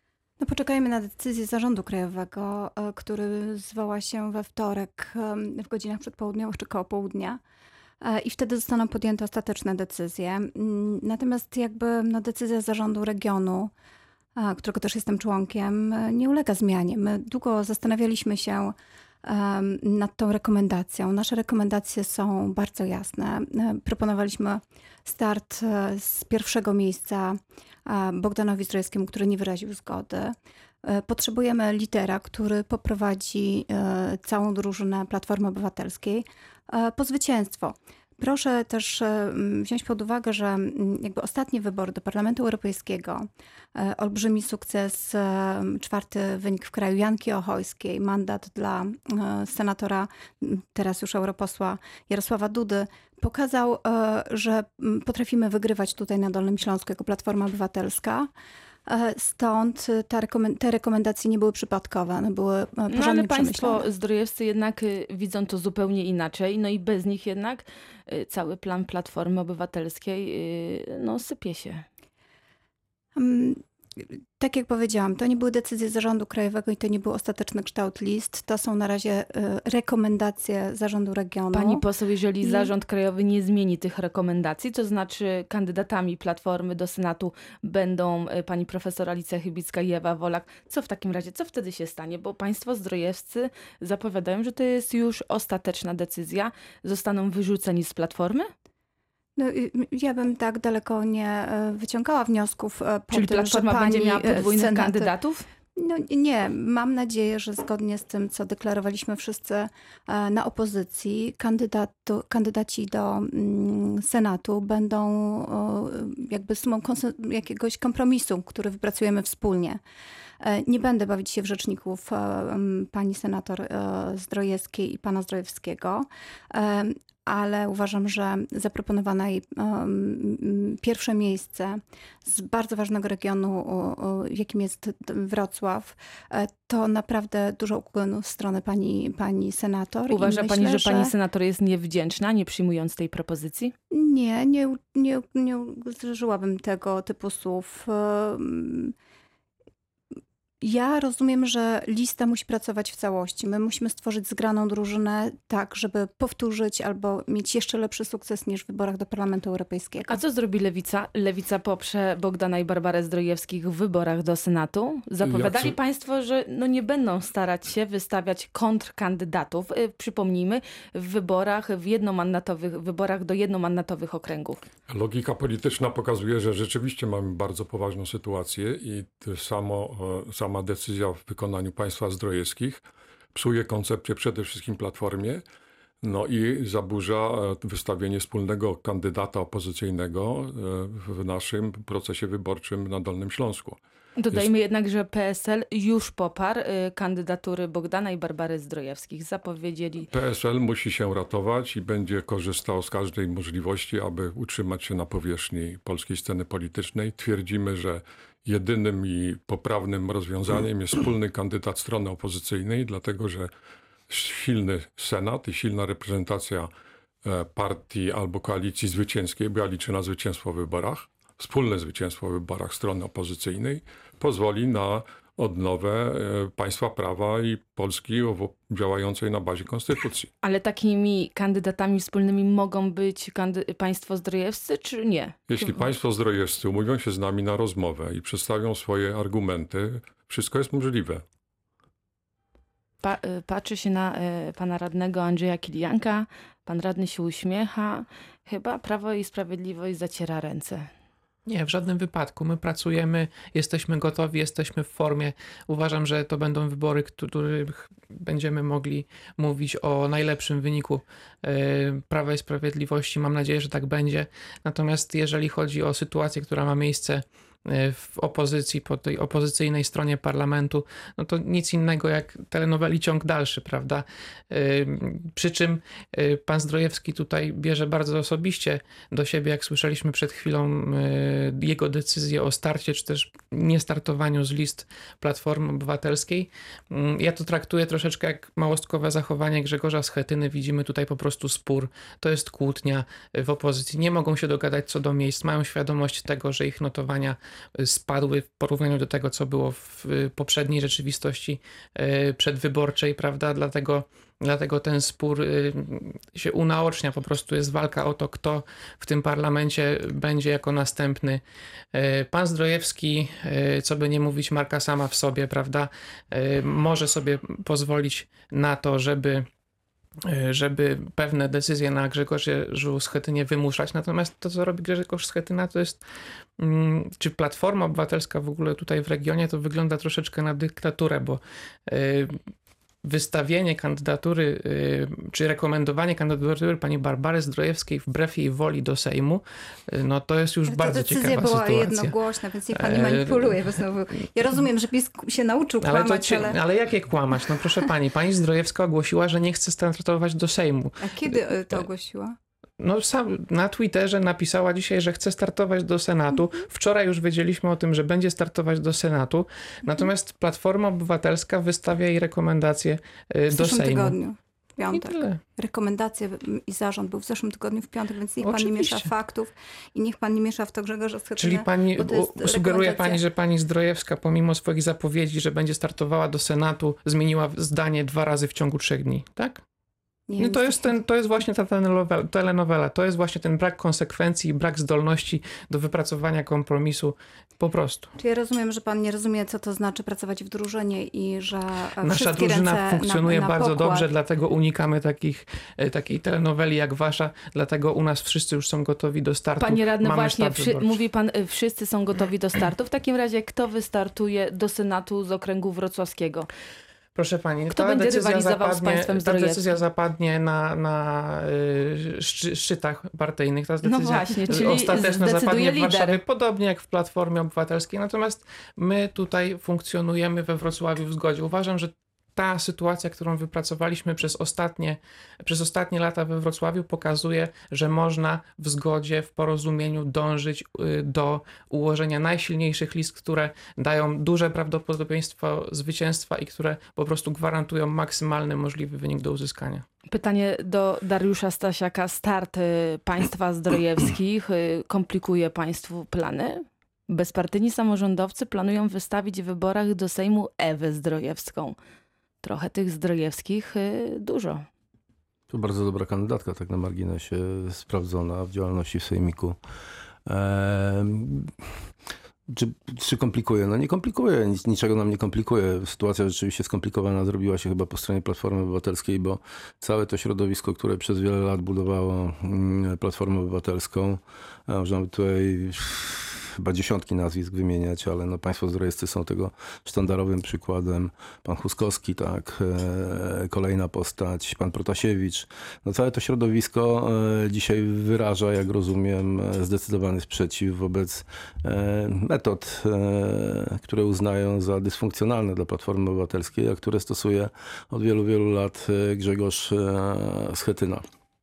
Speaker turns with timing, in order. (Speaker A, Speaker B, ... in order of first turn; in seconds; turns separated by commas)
Speaker A: 0.4-7.4, Speaker A: 8.0-13.7, Speaker A: 14.3-58.3, Speaker A: 58.9-63.9, Speaker B: 62.9-71.8, Speaker A: 73.1-81.8, Speaker B: 81.5-98.5, Speaker A: 82.4-82.7, Speaker A: 99.4-105.1, Speaker B: 103.1-105.5, Speaker A: 105.8-119.8, Speaker A: 120.4-141.1, Speaker B: 140.1-143.7, Speaker A: 143.9-148.9, Speaker A: 150.6-160.2, Speaker B: 160.1-174.6, Speaker C: 165.2-165.7, Speaker C: 174.9-185.4, Speaker C: 186.0-193.8, Speaker B: 194.2-200.1, Speaker C: 200.1-213.5, Speaker C: 214.1-216.7, Speaker C: 217.2-230.3, Speaker B: 230.4-235.9, Speaker C: 235.5-241.2, Speaker B: 243.0-250.9, Speaker D: 251.5-311.4, Speaker D: 311.9-319.4, Speaker D: 320.3-326.0, Speaker D: 326.6-332.3, Speaker D: 333.0-343.7, Speaker A: 340.7-346.6, Speaker D: 345.8-351.9, Speaker A: 351.0-352.4, Speaker D: 352.8-364.2, Speaker A: 363.5-373.2, Speaker D: 364.9-365.4, Speaker D: 368.4-369.1, Speaker D: 371.4-379.6, Speaker A: 380.3-381.0, Speaker D: 380.4-388.1, Speaker A: 388.2-394.1, Speaker D: 392.0-401.0, Speaker B: 399.6-406.5, Speaker D: 407.1-439.8, Speaker B: 407.7-409.8, Speaker B: 413.8-416.2, Speaker B: 440.1-451.8, Speaker B: 452.4-454.6, Speaker E: 455.5-459.6, Speaker E: 460.2-461.7, Speaker E: 462.5-501.0